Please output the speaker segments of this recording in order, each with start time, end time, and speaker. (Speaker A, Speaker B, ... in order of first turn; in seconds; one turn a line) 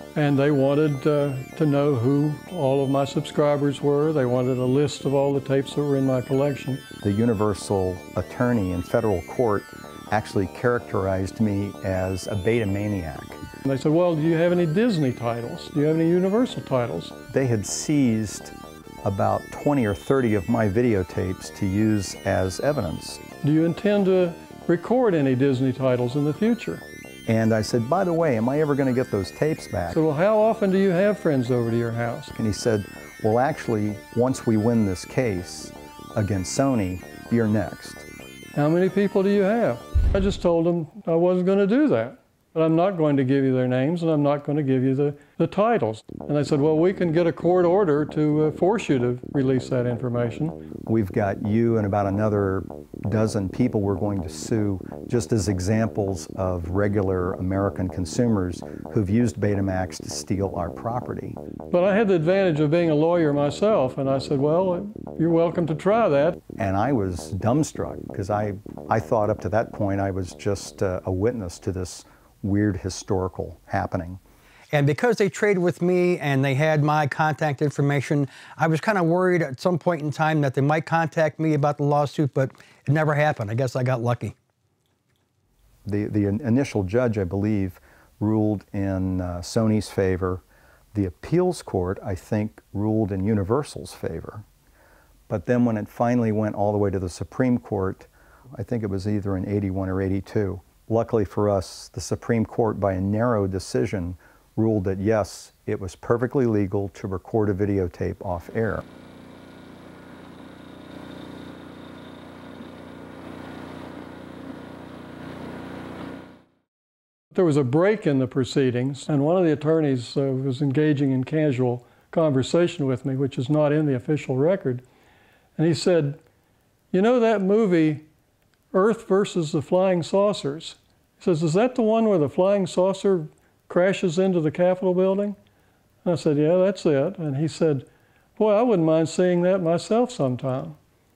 Speaker A: 0.1-6.8
Speaker B: 7.0-13.4
Speaker A: 13.7-17.1
Speaker B: 17.3-23.2
Speaker A: 23.4-26.8
Speaker B: 27.3-30.0
Speaker A: 29.9-32.3
Speaker B: 32.4-38.1
Speaker A: 38.5-50.6
Speaker B: 50.9-61.4
Speaker A: 61.7-66.4
Speaker B: 66.6-74.2
Speaker C: 74.7-84.3
Speaker B: 85.9-90.4
Speaker B: 90.9-94.5
Speaker B: 95.3-108.8
Speaker A: 117.3-124.8
Speaker A: 125.6-126.2
Speaker A: 126.9-128.1
Speaker A: 128.7-135.4
Speaker A: 136.0-140.8